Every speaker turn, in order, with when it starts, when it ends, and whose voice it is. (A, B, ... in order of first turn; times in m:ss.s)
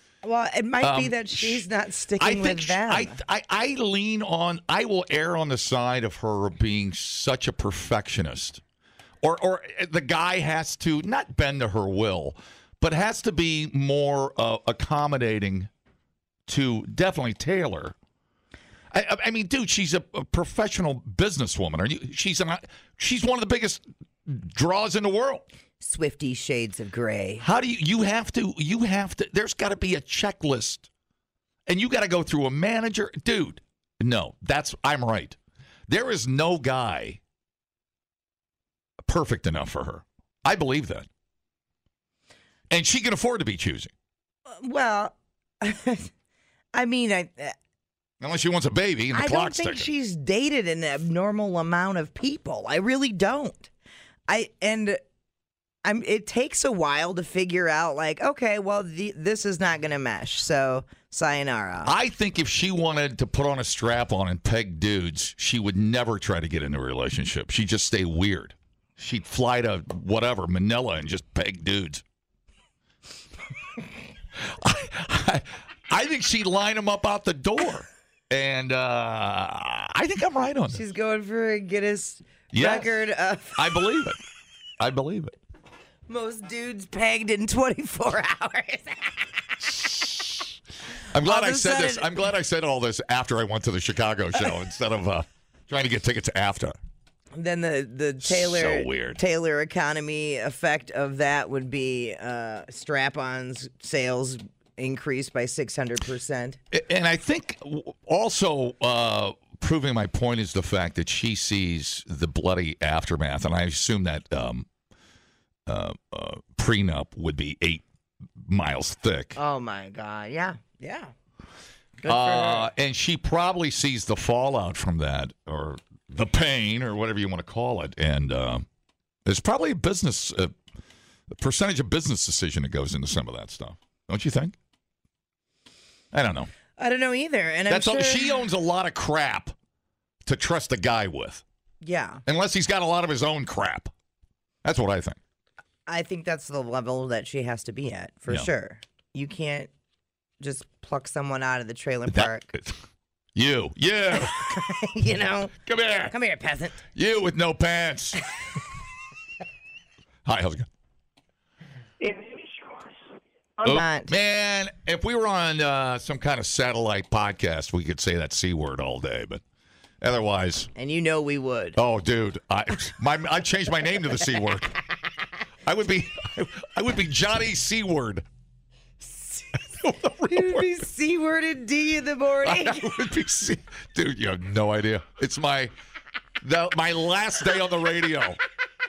0:00.2-0:03.2 A
0:00.8-0:01.6 B
0:02.2-0:08.6 B
0:09.2-0:15.7 B
0:16.5-0:18.0 B
0:18.9-0:25.5 B
0:25.8-0:27.4 A
0:27.4-0:30.9 B
0:31.7-0:37.2 B
0:39.0-0:41.1 B
0:42.7-0:43.9 B
0:44.5-0:46.1 A
0:46.7-0:47.6 A
0:48.2-0:49.9 B
0:49.1-0:53.7 A
0:54.3-0:55.0 A
0:55.8-1:01.9 A
1:01.8-1:12.0 B
1:14.4-1:20.8 B
1:20.7-1:23.8 A
1:22.5-1:23.0 B
1:23.6-1:24.2 B
1:24.8-1:25.4 B
1:26.1-1:29.3 A
1:29.7-1:30.5 B
1:31.1-1:36.8 B
1:31.2-1:32.1 A
1:37.4-1:46.6 A
1:38.2-1:39.2 B
1:46.7-1:54.7 B
1:55.7-1:57.8 B
1:58.4-1:59.4 B
1:59.4-2:01.1 A
2:02.0-2:02.7 A
2:02.0-2:08.7 B
2:09.3-2:10.6 B
2:11.3-2:14.6 B
2:16.1-2:16.5 B
2:16.8-2:18.3 A
2:17.7-2:19.6 B
2:20.2-2:21.4 B
2:21.8-2:22.2 A
2:22.3-2:23.9 B
2:24.6-2:25.2 B
2:25.9-2:29.7 A
2:30.4-2:32.5 A
2:32.1-2:32.8 B
2:33.4-2:34.6 B
2:34.2-2:35.5 A
2:35.6-2:36.2 B
2:36.1-2:36.8 A
2:36.9-2:38.2 B
2:40.2-2:40.7 B
2:43.6-2:49.4 B
2:43.6-2:44.1 A
2:50.0-2:50.7 B
2:50.8-2:51.8 A
2:51.8-2:54.8 B
2:55.6-2:58.3 B
2:59.0-2:59.6 A
2:59.8-3:00.7 B
3:00.3-3:03.0 A
3:02.4-3:05.7 B
3:06.4-3:08.4 B